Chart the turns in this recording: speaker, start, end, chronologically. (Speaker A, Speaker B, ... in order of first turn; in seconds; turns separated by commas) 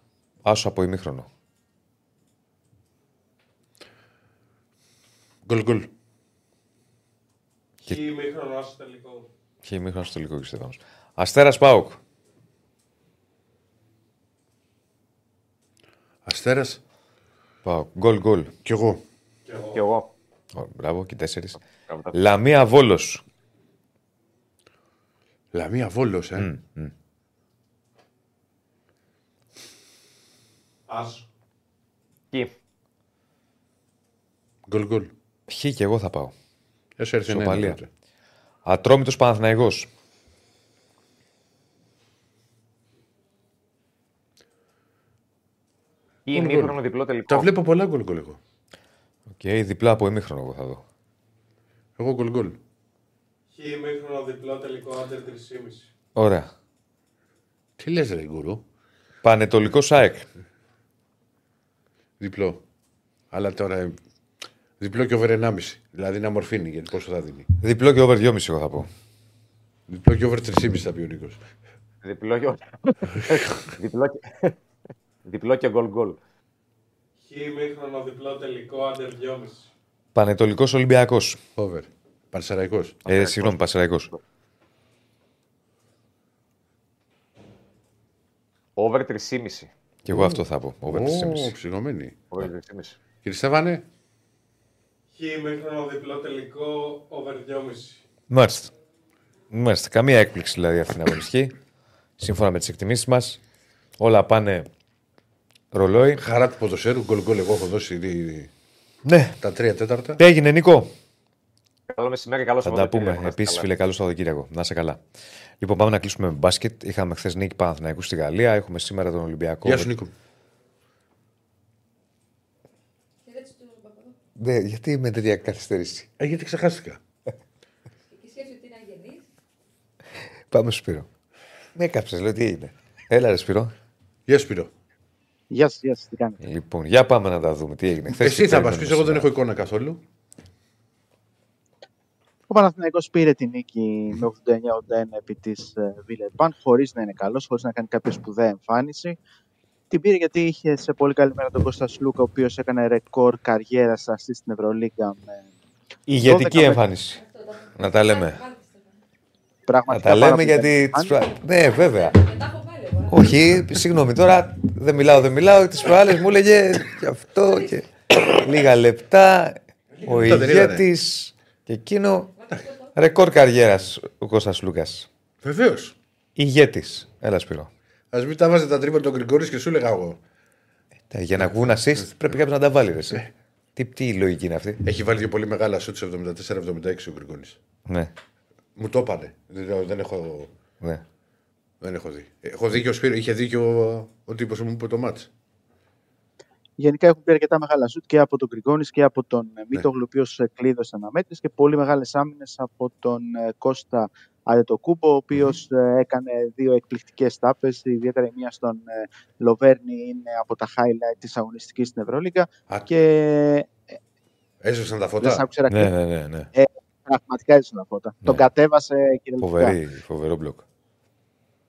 Speaker A: 0.5-1.3, Speaker B: 5.5-5.9, Speaker C: 7.8-9.3, Speaker A: 9.7-12.0, Speaker B: 16.2-16.8, Speaker A: 17.6-18.5, Speaker B: 18.6-19.0, Speaker C: 19.5-19.8, Speaker D: 19.7-20.1, Speaker A: 20.6-21.6, Speaker D: 21.9-22.1, Speaker A: 22.1-23.2, Speaker B: 25.5-26.5, Speaker A: 26.4-26.9, Speaker C: 30.9-31.2, Speaker B: 34.7-35.1, Speaker A: 35.5-36.3, Speaker B: 37.0-37.9, Speaker A: 37.3-37.8, Speaker A: 38.7-39.9, Speaker D: 46.3-47.5, Speaker B: 46.3-46.8, Speaker B: 47.3-48.4, Speaker A: 49.4-50.8, Speaker B: 52.0-52.6, Speaker C: 53.5-55.9, Speaker A: 56.2-56.5, Speaker B: 57.8-58.6, Speaker A: 59.2-60.3, Speaker B: 62.2-62.6, Speaker B: 63.3-64.0, Speaker B: 64.8-67.5, Speaker A: 67.6-68.9, Speaker B: 69.9-71.4, Speaker D: 72.0-74.6, Speaker D: 75.2-76.2, Speaker C: 77.3-79.7, Speaker A: 80.2-81.4, Speaker B: 81.6-83.0, Speaker D: 83.0-83.6, Speaker A: 83.1-84.1, Speaker D: 88.8-89.7, Speaker A: 90.0-91.5, Speaker B: 90.1-92.2, Speaker D: 92.3-93.0, Speaker B: 93.2-93.8, Speaker C: 95.1-98.0, Speaker A: 98.3-98.7, Speaker A: 99.5-101.5, Speaker A: 102.2-103.4, Speaker A: 104.0-104.7, Speaker A: 105.7-106.2, Speaker B: 106.2-108.5, Speaker A: 109.1-109.3, Speaker B: 109.4-110.2, Speaker A: 110.2-110.9, Speaker D: 111.9-113.7, Speaker A: 112.7-115.0, Speaker A: 115.6-119.9, Speaker B: 119.6-120.1, Speaker E: 123.2-124.2, Speaker A: 124.4-126.1, Speaker B: 126.2-127.0, Speaker E: 128.1-129.3, Speaker A: 130.5-131.1, Speaker A: 131.8-133.7, Speaker B: 134.3-134.7, Speaker F: 135.5-136.4, Speaker A: 136.4-139.3, Speaker B: 138.1-140.0, Speaker F: 142.5-149.2, Speaker F: 149.9-155.5, Speaker A: 156.1-157.2, Speaker F: 156.2-156.8, Speaker E: 157.1-159.0, Speaker A: 157.8-158.4, Speaker F: 159.7-161.1, Speaker A: 159.9-162.2, Speaker E: 161.7-163.4, Speaker A: 163.1-172.3, Speaker B: 169.9-170.9, Speaker E: 172.4-172.9, Speaker A: 172.9-175.1, Speaker B: 175.4-175.9, Speaker A: 176.4-177.7, Speaker B: 178.1-180.2, Speaker A: 181.1-184.8, Speaker B: 181.4-182.1, Speaker B: 184.8-187.6, Speaker B: 188.8-190.5, Speaker B: 191.8-195.3, Speaker F: 196.8-213.8, Speaker B: 214.6-215.4, Speaker F: 215.2-215.9, Speaker A: 215.7-216.5, Speaker F: 216.6-219.8, Speaker A: 219.4-220.6